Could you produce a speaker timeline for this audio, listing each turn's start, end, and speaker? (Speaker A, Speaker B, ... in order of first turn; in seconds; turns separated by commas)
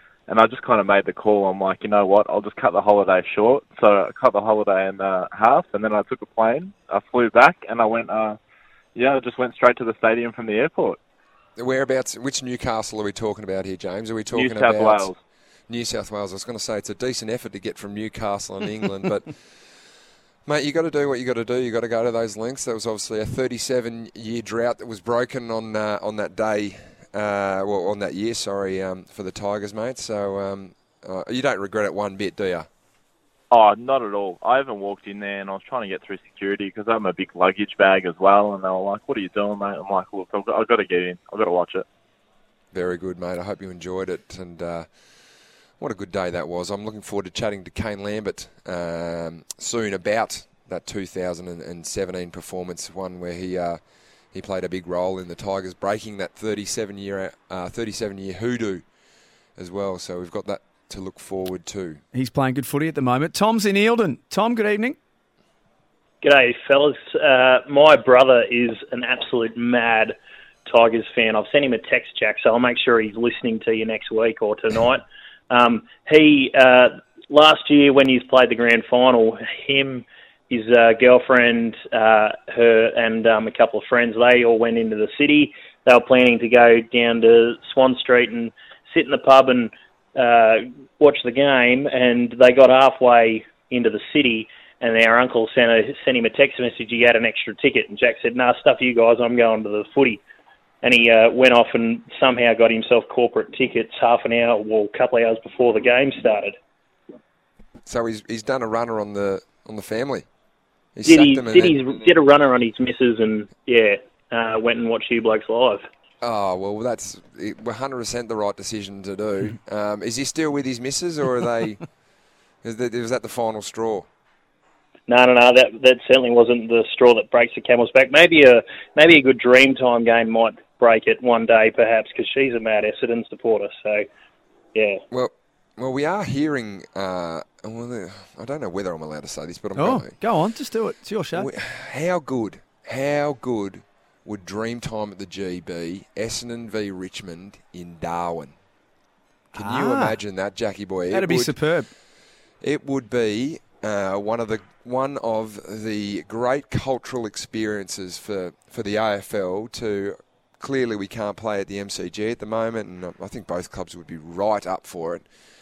Speaker A: 0.3-8.4, Speaker A: 8.9-11.0, Speaker B: 11.6-15.1, Speaker A: 14.3-15.2, Speaker B: 15.7-19.3, Speaker B: 20.5-32.7, Speaker A: 33.5-41.9, Speaker B: 42.7-44.9, Speaker B: 45.8-53.8, Speaker B: 54.3-58.9, Speaker B: 59.6-62.0, Speaker C: 62.1-65.0, Speaker D: 66.2-100.2, Speaker D: 100.8-106.6, Speaker B: 107.9-110.3, Speaker B: 111.0-111.8, Speaker D: 111.1-115.9, Speaker B: 116.2-121.8, Speaker B: 122.6-124.1, Speaker D: 125.1-134.1, Speaker D: 134.7-135.0, Speaker B: 135.1-140.2, Speaker C: 139.8-141.5, Speaker B: 141.4-148.6, Speaker C: 149.5-150.2, Speaker B: 149.5-151.6, Speaker C: 151.1-151.9, Speaker B: 152.6-165.2